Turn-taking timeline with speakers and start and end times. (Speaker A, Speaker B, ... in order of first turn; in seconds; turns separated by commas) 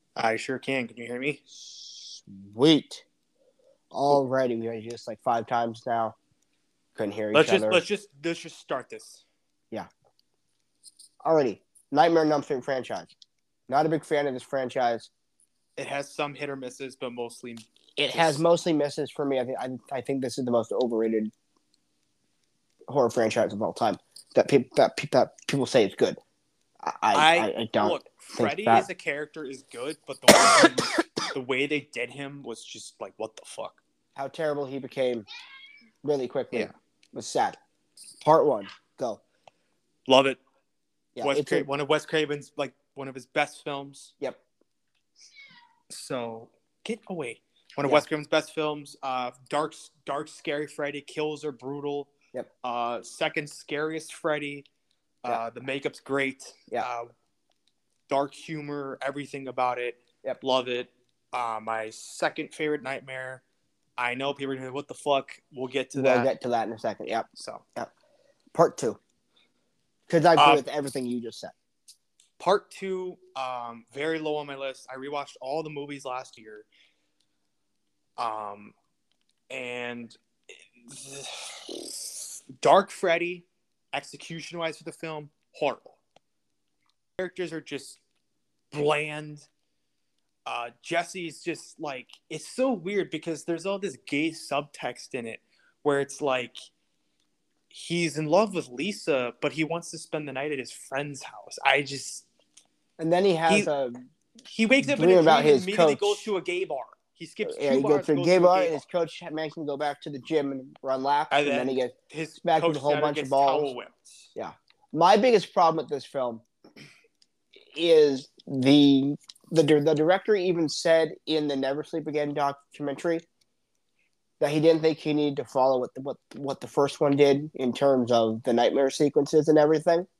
Speaker A: 0.1-1.4, Speaker B: 1.6-3.0, Speaker B: 3.9-6.2, Speaker B: 6.9-7.8, Speaker A: 7.3-9.2, Speaker B: 11.2-13.1, Speaker B: 13.7-15.1, Speaker A: 15.8-18.4, Speaker B: 18.0-21.3, Speaker B: 22.9-26.2, Speaker B: 26.8-28.9, Speaker A: 27.1-33.8, Speaker B: 34.1-35.2, Speaker B: 36.0-37.6, Speaker B: 38.2-39.2, Speaker A: 40.1-40.4, Speaker B: 41.1-41.7, Speaker A: 41.2-44.1, Speaker A: 45.9-52.1, Speaker A: 52.6-54.7, Speaker A: 55.2-57.1, Speaker A: 58.1-63.4, Speaker A: 64.0-66.3, Speaker B: 65.9-67.9, Speaker A: 67.3-67.6, Speaker B: 68.5-69.0, Speaker B: 70.1-71.5, Speaker A: 70.3-70.6, Speaker A: 72.4-76.7, Speaker A: 78.2-78.7, Speaker A: 79.5-80.2, Speaker A: 80.8-86.0, Speaker A: 87.2-88.0, Speaker A: 88.7-89.5, Speaker A: 90.5-96.6, Speaker A: 97.7-102.2, Speaker B: 103.0-104.0, Speaker A: 104.5-108.8, Speaker B: 104.8-106.3, Speaker B: 107.4-113.7, Speaker A: 111.3-114.3, Speaker B: 114.3-116.4, Speaker B: 117.7-123.2, Speaker B: 124.4-130.1